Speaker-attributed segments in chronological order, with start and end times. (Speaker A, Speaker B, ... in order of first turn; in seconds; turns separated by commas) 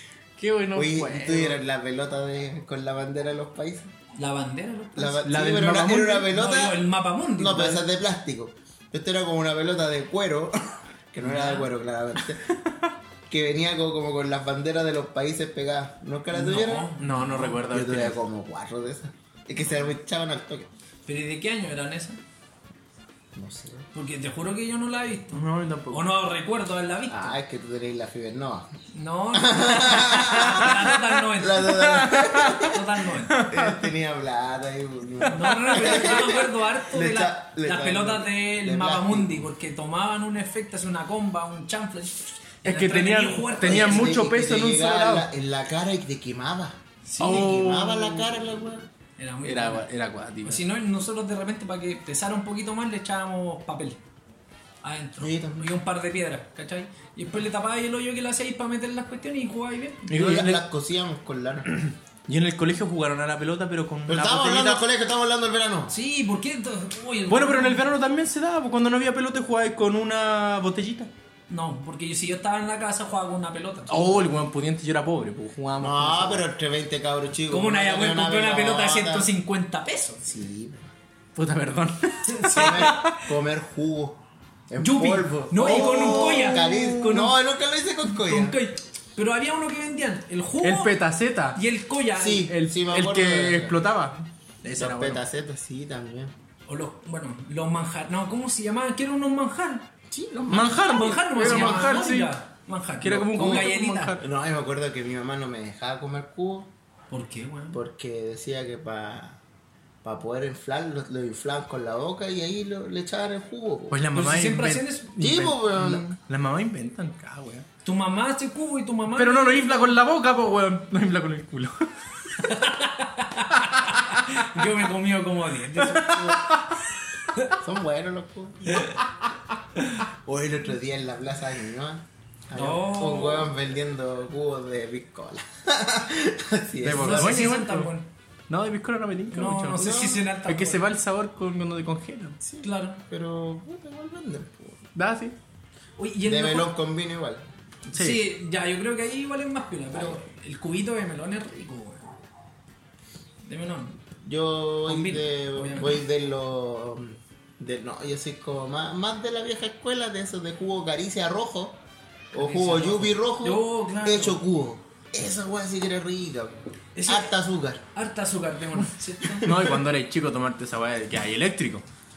Speaker A: 0.4-1.6, Speaker B: 0.8-3.9, Speaker C: 4.2-5.2, Speaker B: 5.0-6.8, Speaker A: 5.2-6.3, Speaker C: 6.3-7.8, Speaker B: 7.4-12.4, Speaker C: 11.2-11.7, Speaker B: 13.3-16.9, Speaker C: 16.3-17.6, Speaker A: 17.0-18.2, Speaker B: 17.6-20.7, Speaker C: 21.1-22.2, Speaker B: 23.4-23.9, Speaker C: 23.9-27.4, Speaker A: 25.3-26.1, Speaker B: 27.1-28.7, Speaker C: 28.9-31.7, Speaker B: 29.3-32.8, Speaker A: 31.7-32.7, Speaker C: 32.7-33.4, Speaker A: 33.3-33.9, Speaker B: 33.5-39.5, Speaker C: 35.3-44.2, Speaker A: 35.4-36.2, Speaker A: 42.6-45.3, Speaker B: 43.6-48.9, Speaker C: 47.1-47.5, Speaker A: 47.2-48.3, Speaker C: 49.2-49.9, Speaker A: 49.4-50.6, Speaker C: 50.4-54.0, Speaker C: 54.8-60.1, Speaker B: 55.2-55.7, Speaker A: 60.1-60.6, Speaker B: 60.1-61.7, Speaker A: 61.7-64.8, Speaker B: 64.1-65.9, Speaker C: 65.9-67.8, Speaker A: 67.3-71.1, Speaker C: 71.5-74.0, Speaker A: 73.9-76.5, Speaker B: 75.8-79.3, Speaker C: 77.5-80.2, Speaker B: 80.2-80.9, Speaker A: 81.4-83.2, Speaker C: 82.3-83.0, Speaker B: 82.5-88.6, Speaker C: 84.8-87.3, Speaker A: 85.6-87.2, Speaker C: 88.1-90.9, Speaker A: 90.6-91.6, Speaker C: 91.5-92.5, Speaker B: 92.2-93.8, Speaker A: 92.5-95.2, Speaker B: 94.8-96.3, Speaker C: 96.7-99.9, Speaker B: 100.1-102.0, Speaker A: 100.5-102.3, Speaker C: 100.8-104.1, Speaker A: 103.0-104.2, Speaker B: 103.4-103.7, Speaker B: 104.2-106.7, Speaker C: 107.1-107.8, Speaker B: 107.7-109.4, Speaker B: 110.0-114.0, Speaker A: 113.9-117.7, Speaker C: 114.1-115.1, Speaker B: 115.2-116.1, Speaker C: 117.8-119.9, Speaker A: 119.1-121.9, Speaker C: 122.4-126.6, Speaker A: 125.9-126.6, Speaker B: 127.6-128.9, Speaker B: 130.3-137.4, Speaker C: 132.6-133.5, Speaker A: 136.8-137.9, Speaker C: 137.0-138.1, Speaker A: 138.5-142.4, Speaker C: 139.3-140.8, Speaker B: 139.8-140.2, Speaker B: 142.4-144.9, Speaker C: 142.6-143.0, Speaker A: 144.9-145.3, Speaker C: 146.0-146.7, Speaker B: 146.2-147.4, Speaker A: 147.9-148.2, Speaker C: 147.9-152.2, Speaker B: 149.9-150.2, Speaker C: 153.4-154.0, Speaker B: 154.2-161.8, Speaker C: 154.9-155.9, Speaker B: 162.3-167.8, Speaker C: 162.4-164.4, Speaker C: 166.9-167.3, Speaker C: 167.9-169.5, Speaker B: 169.4-169.7, Speaker A: 169.4-171.8